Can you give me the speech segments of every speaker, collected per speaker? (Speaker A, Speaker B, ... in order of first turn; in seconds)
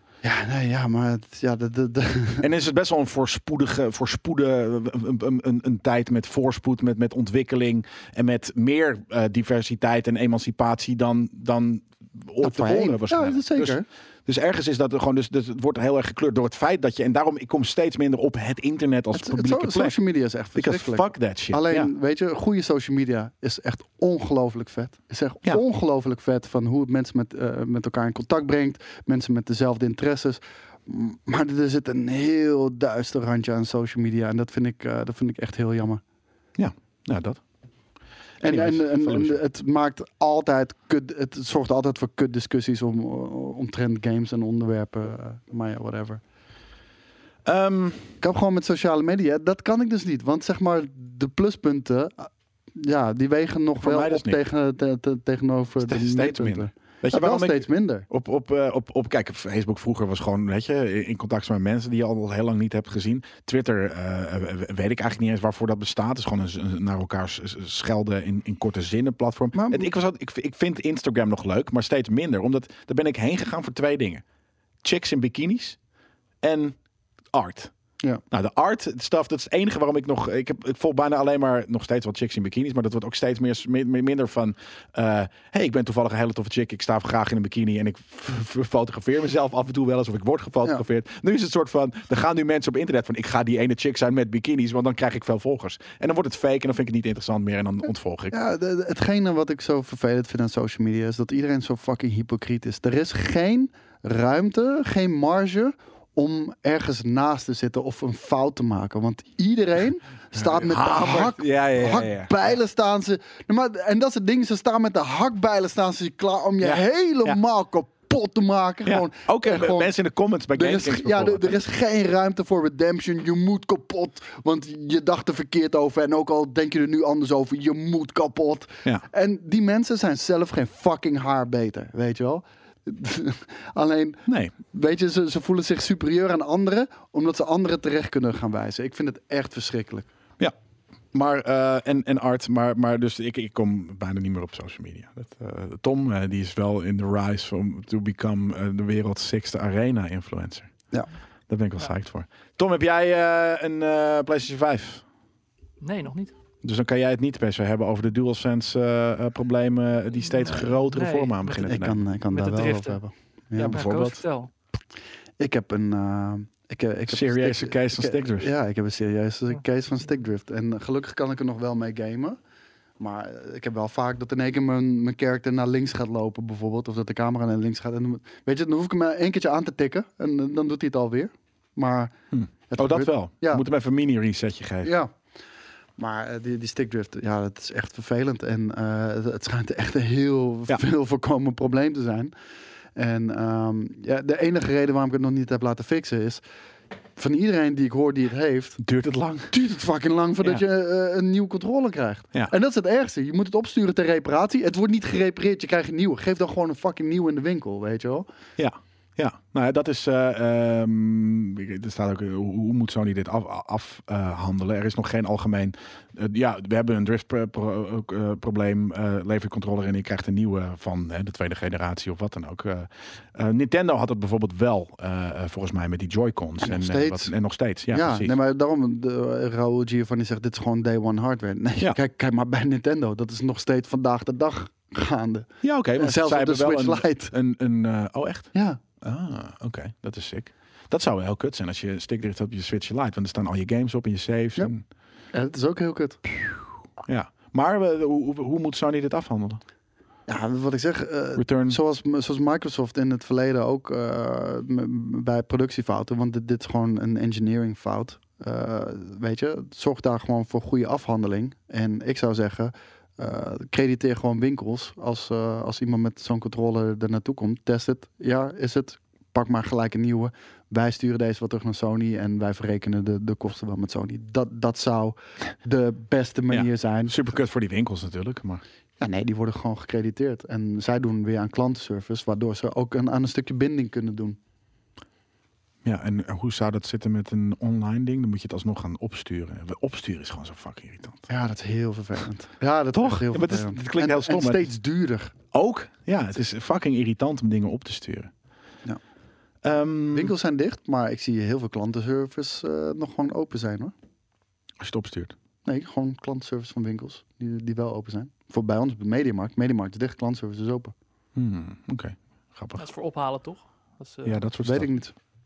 Speaker A: 0.2-2.5, 12.4-13.8, 19.1-36.0, 38.4-46.2, 48.2-58.0, 69.5-69.9, 98.3-119.9, 120.5-140.1, 161.6-163.8, 165.4-172.4, 173.0-182.1, 182.7-183.6, 184.8-185.1, 186.0-192.3, 192.9-196.4, 197.2-198.8, 199.5-208.3, 226.6-227.3, 227.9-237.3, 238.5-238.8, 245.3-246.2, 250.3-277.2, 279.0-284.4, 291.3-295.3, 300.1-303.9, 305.6-310.9, 314.6-315.1
Speaker B: 2.4-19.9, 20.5-21.9, 36.6-37.4, 38.4-39.4, 47.5-48.2, 53.8-54.4, 55.8-74.2, 74.8-75.8, 76.4-76.8, 77.3-77.7, 78.3-98.3, 110.3-112.3, 116.6-117.4, 118.8-121.6, 134.2-134.5, 141.1-150.7, 151.5-155.0, 156.6-162.0, 163.6-164.2, 167.1-168.5, 182.3-184.9, 198.8-199.5, 208.6-228.3, 235.6-244.8, 247.1-249.6, 251.3-251.8, 276.5-278.6, 285.8-291.3, 292.9-294.7, 295.5-298.3, 299.6-300.3, 304.8-305.3, 311.3-312.8, 314.2-314.9
Speaker C: 155.8-156.3, 160.4-163.0, 163.7-164.5, 312.8-314.4